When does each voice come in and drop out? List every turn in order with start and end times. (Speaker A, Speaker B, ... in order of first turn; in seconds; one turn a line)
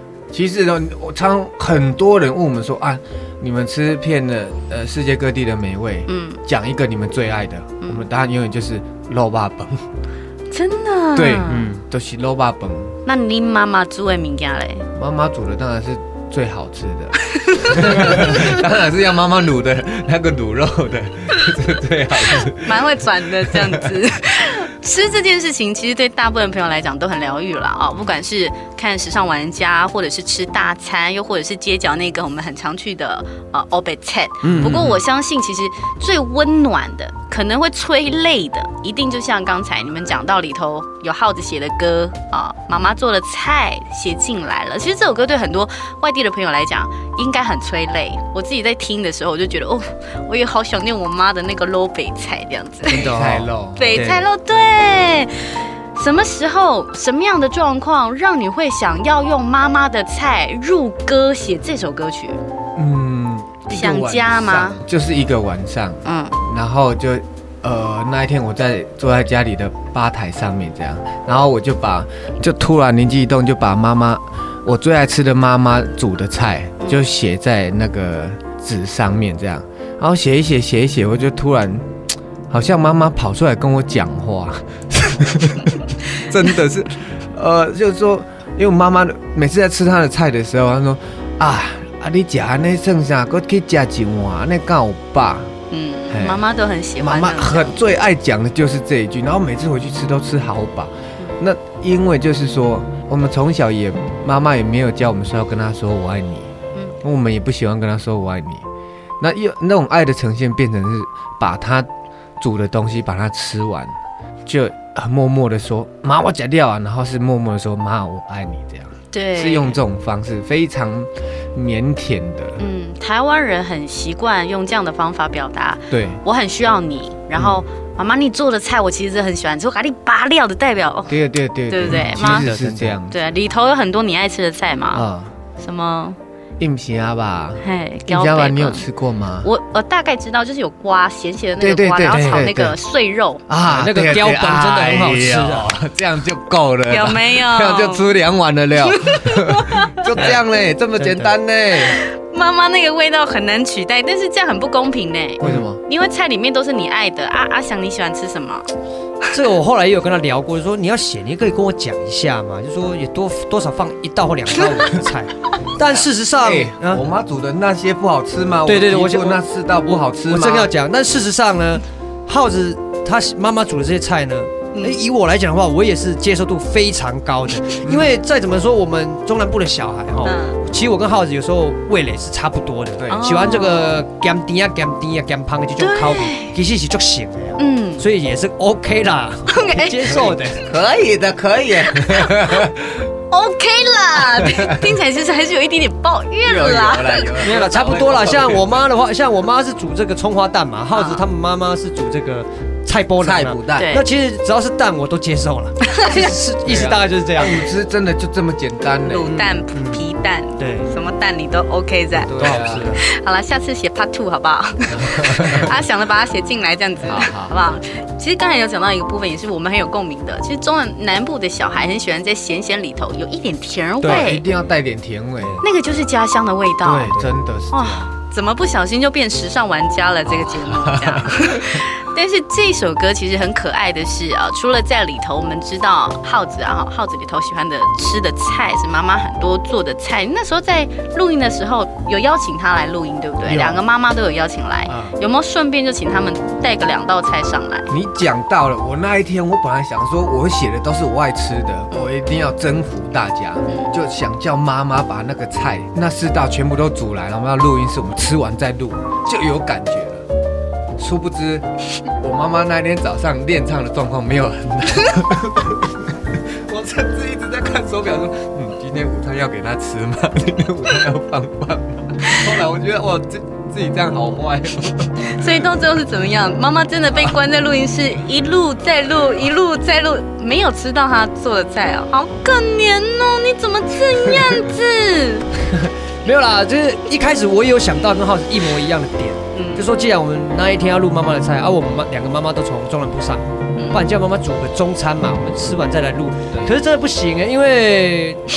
Speaker A: 0.3-9.8
Speaker B: 6.1-6.4
Speaker B: 10.5-11.7
Speaker A: 11.2-13.0
Speaker C: 11.5-11.8
Speaker B: 13.1-14.8
Speaker A: 14.9-22.9
Speaker B: 17.4-18.6
Speaker C: 17.8-18.3
Speaker B: 22.6-62.4
Speaker A: 23.5-24.0
Speaker C: 34.4-34.9
Speaker A: 34.4-35.0
Speaker C: 52.9-54.2
Speaker A: 53.0-53.9
Speaker A: 62.8-81.9
Speaker B: 63.7-64.8
Speaker B: 66.0-66.3
Speaker A: 82.5-95.5
Speaker B: 95.7-97.8
Speaker A: 96.1-96.4
Speaker A: 97.0-108.7
Speaker A: 109.2-111.9
Speaker A: 112.4-113.9
Speaker A: 114.5-122.7
Speaker B: 119.1-119.8
Speaker B: 122.6-131.2
Speaker A: 125.9-126.2
Speaker A: 127.3-127.6
Speaker A: 131.1-133.2
Speaker B: 131.7-132.5
Speaker C: 131.9-133.0
Speaker B: 133.1-135.1
Speaker A: 134.9-135.3
Speaker B: 135.6-136.2
Speaker A: 136.6-139.5
Speaker B: 137.6-138.8
Speaker B: 139.4-143.4
Speaker A: 141.6-142.8
Speaker C: 142.1-142.5
Speaker A: 143.5-152.0
Speaker C: 143.7-145.8
Speaker B: 146.9-148.1
Speaker B: 148.8-150.0
Speaker C: 151.0-151.3
Speaker B: 151.8-158.7
Speaker A: 155.4-155.8
Speaker C: 159.3-167.0
Speaker A: 166.4-170.7
Speaker C: 168.7-190.7
Speaker B: 174.7-175.0
Speaker A: 177.8-178.2
Speaker B: 180.2-180.6
Speaker A: 183.0-183.3
Speaker B: 183.1-183.9
Speaker B: 185.8-186.6
Speaker B: 187.6-188.1
Speaker B: 189.5-190.3
Speaker A: 190.1-193.1
Speaker B: 191.9-192.6
Speaker B: 193.3-197.4
Speaker A: 194.4-194.7
Speaker A: 196.4-198.8
Speaker C: 197.4-207.6
Speaker B: 200.9-201.2
Speaker A: 203.2-203.9
Speaker B: 203.8-204.0
Speaker A: 206.6-209.4
Speaker B: 209.0-224.4
Speaker C: 209.3-210.0
Speaker C: 210.6-210.9
Speaker A: 212.2-212.9
Speaker C: 212.3-213.0
Speaker A: 214.9-215.7
Speaker A: 217.1-217.6
Speaker C: 224.0-224.3
Speaker A: 224.0-225.6
Speaker B: 225.6-227.1
Speaker C: 226.8-227.3
Speaker A: 226.9-228.1
Speaker B: 227.7-247.9
Speaker A: 230.3-231.9
Speaker A: 243.5-243.8
Speaker A: 244.9-245.2
Speaker A: 247.9-260.2
Speaker A: 261.0-275.6
Speaker B: 275.2-285.5
Speaker C: 285.8-298.4
Speaker B: 289.5-289.9
Speaker B: 293.8-294.1